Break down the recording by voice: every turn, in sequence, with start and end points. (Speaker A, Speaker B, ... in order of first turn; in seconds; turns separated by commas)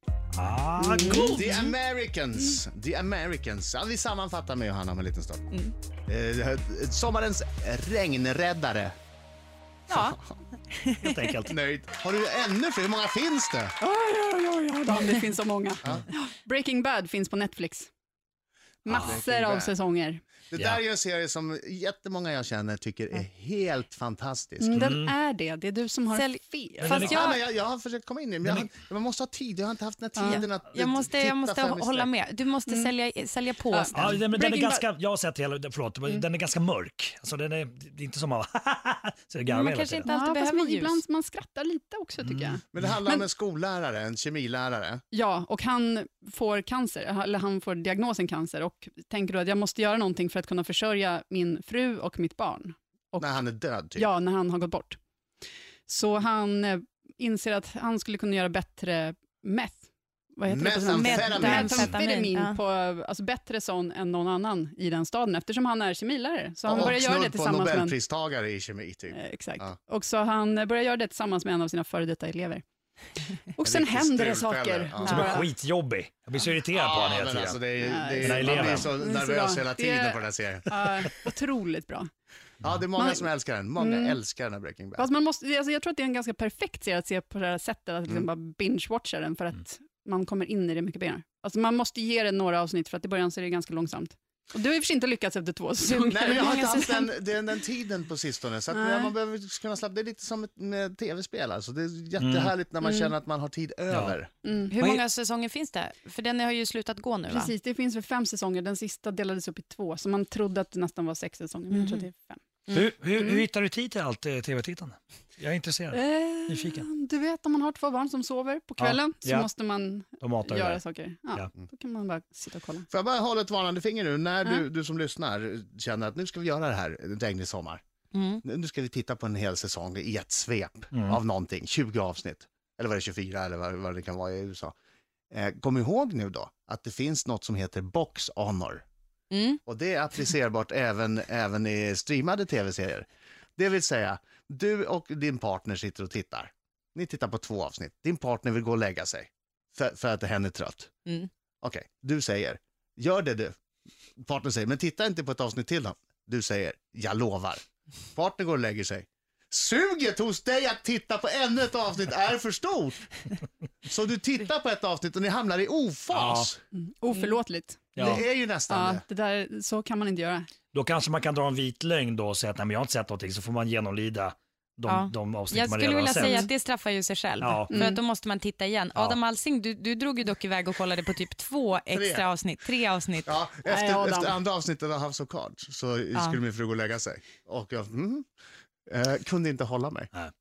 Speaker A: 0.3-1.6, Speaker B: 0.8-1.4, Speaker C: 1.1-1.6, Speaker D: 1.3-5.5, Speaker D: 6.1-8.9, Speaker C: 9.9-10.2, Speaker D: 9.9-10.3, Speaker C: 10.7-11.2, Speaker A: 11.0-11.6, Speaker D: 11.5-13.8, Speaker B: 13.8-17.9, Speaker B: 18.8-20.2, Speaker D: 18.9-19.7, Speaker D: 20.5-24.9, Speaker B: 24.6-27.3, Speaker A: 24.8-25.1, Speaker C: 26.1-27.4, Speaker D: 26.8-32.1, Speaker A: 26.9-27.2, Speaker A: 28.4-28.7, Speaker B: 30.2-30.4, Speaker C: 30.2-34.1, Speaker B: 32.7-32.9, Speaker B: 33.7-34.8, Speaker A: 33.9-40.1, Speaker C: 39.5-41.0, Speaker B: 40.1-43.3, Speaker D: 42.6-45.0, Speaker B: 45.1-53.3, Speaker D: 53.2-54.1, Speaker B: 54.0-55.0, Speaker B: 55.9-68.0, Speaker D: 60.5-61.9, Speaker C: 60.9-62.6, Speaker D: 66.7-69.7, Speaker B: 69.1-72.6, Speaker B: 73.5-75.5, Speaker D: 73.6-75.4, Speaker A: 75.1-77.7, Speaker D: 76.7-81.0, Speaker B: 77.8-82.1, Speaker A: 78.2-78.9, Speaker A: 82.6-82.9, Speaker D: 82.7-85.1, Speaker B: 82.9-84.2, Speaker B: 85.0-96.8, Speaker C: 95.8-97.2, Speaker D: 96.1-104.3, Speaker B: 98.7-99.1, Speaker A: 102.2-102.5, Speaker C: 102.8-103.1, Speaker A: 103.9-104.2, Speaker B: 104.4-104.8, Speaker C: 104.7-107.5, Speaker B: 107.3-112.4, Speaker C: 111.7-112.0, Speaker A: 112.7-116.9, Speaker B: 115.9-122.9, Speaker A: 118.8-119.5, Speaker A: 120.2-120.8, Speaker D: 122.9-127.8, Speaker C: 128.1-128.4, Speaker D: 128.4-134.7, Speaker A: 130.9-131.2, Speaker D: 135.3-138.8, Speaker C: 139.3-139.6, Speaker D: 139.7-143.1, Speaker D: 143.6-150.9, Speaker D: 151.6-153.6, Speaker D: 154.2-157.6, Speaker D: 158.1-163.0, Speaker D: 163.9-166.6, Speaker A: 166.1-166.5, Speaker B: 166.7-168.1, Speaker A: 167.9-168.2, Speaker D: 168.0-169.0, Speaker B: 168.7-170.5, Speaker A: 170.7-176.5, Speaker C: 174.9-183.4, Speaker B: 176.2-176.5, Speaker A: 177.4-177.8, Speaker B: 177.7-178.0, Speaker D: 181.9-182.3, Speaker D: 183.2-188.3, Speaker B: 183.7-184.4, Speaker D: 188.9-190.1